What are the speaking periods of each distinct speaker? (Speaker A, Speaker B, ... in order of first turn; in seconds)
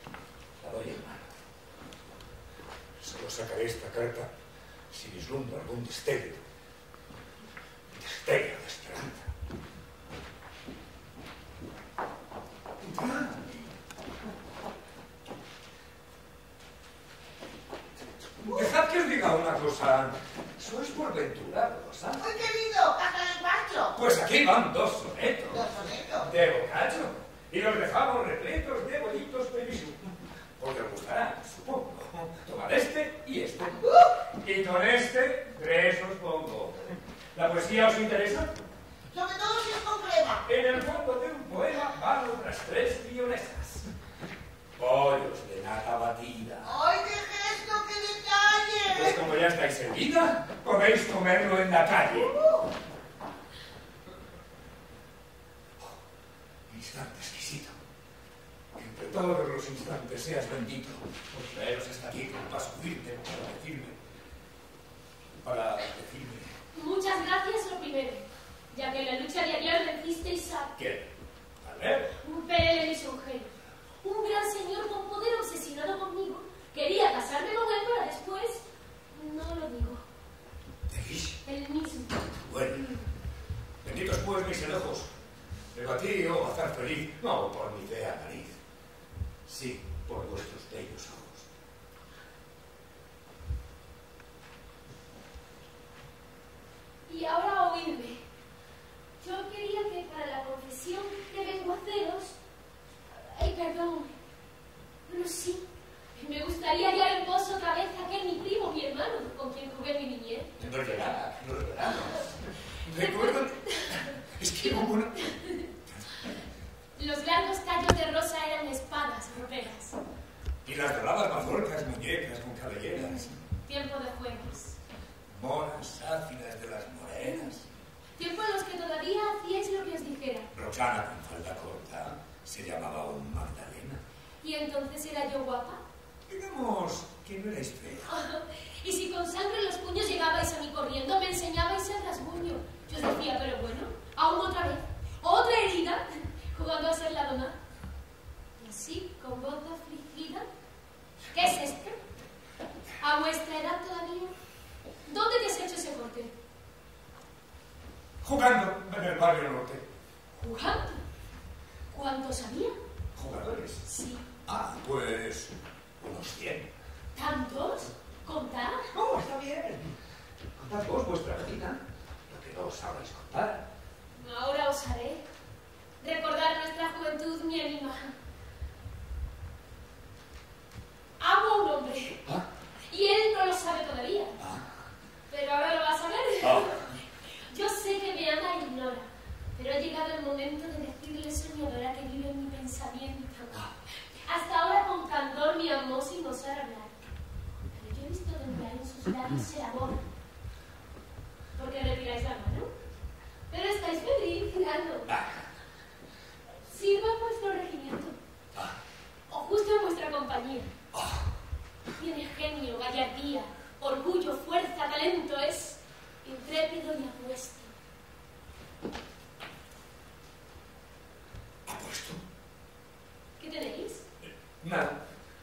Speaker A: 0.6-1.3, 3.0-4.3, 4.9-6.4, 7.9-9.3, 12.8-13.6, 18.4-22.3, 23.9-25.6, 26.2-38.5, 40.5-43.9, 44.8-46.8, 48.9-52.4, 56.7-57.8, 58.7-64.0, 65.4-66.5, 70.8-71.1, 71.6-72.2, 80.9-81.4, 82.3-83.0, 83.8-85.1, 85.7-88.6, 89.5-91.5, 110.6-116.3, 120.6-123.4, 125.3-127.7, 130.5-134.0, 136.3-138.1, 158.2-159.8, 163.2-163.8, 164.4-166.7, 168.9-169.9, 170.6-173.7, 184.4-184.7, 186.4-186.9, 205.0-205.5, 208.5-208.8, 210.9-211.3, 221.7-222.2, 224.6-225.0
Speaker B: 22.2-23.9, 25.5-26.3, 39.1-40.4, 46.6-49.2, 52.4-52.6
Speaker C: 66.7-70.8, 72.2-73.5, 74.0-80.0, 81.4-82.3, 97.1-98.2, 99.2-102.4, 103.1-104.2, 105.1-110.5, 112.9-114.2, 115.2-115.7, 117.0-120.0, 123.6-124.8, 128.2-130.5, 134.4-135.8, 138.1-147.6, 148.6-150.4, 151.3-152.0, 153.0-154.3, 155.1-156.3, 160.3-161.0, 161.9-162.8, 163.8-164.2, 167.1-168.9, 174.2-175.2, 176.0-178.1, 181.2-182.2, 182.9-184.4, 185.3-197.0, 197.7-200.0, 201.6-202.7, 203.5-205.1, 206.7-208.2, 209.3-210.7, 212.0-217.7, 223.4-224.0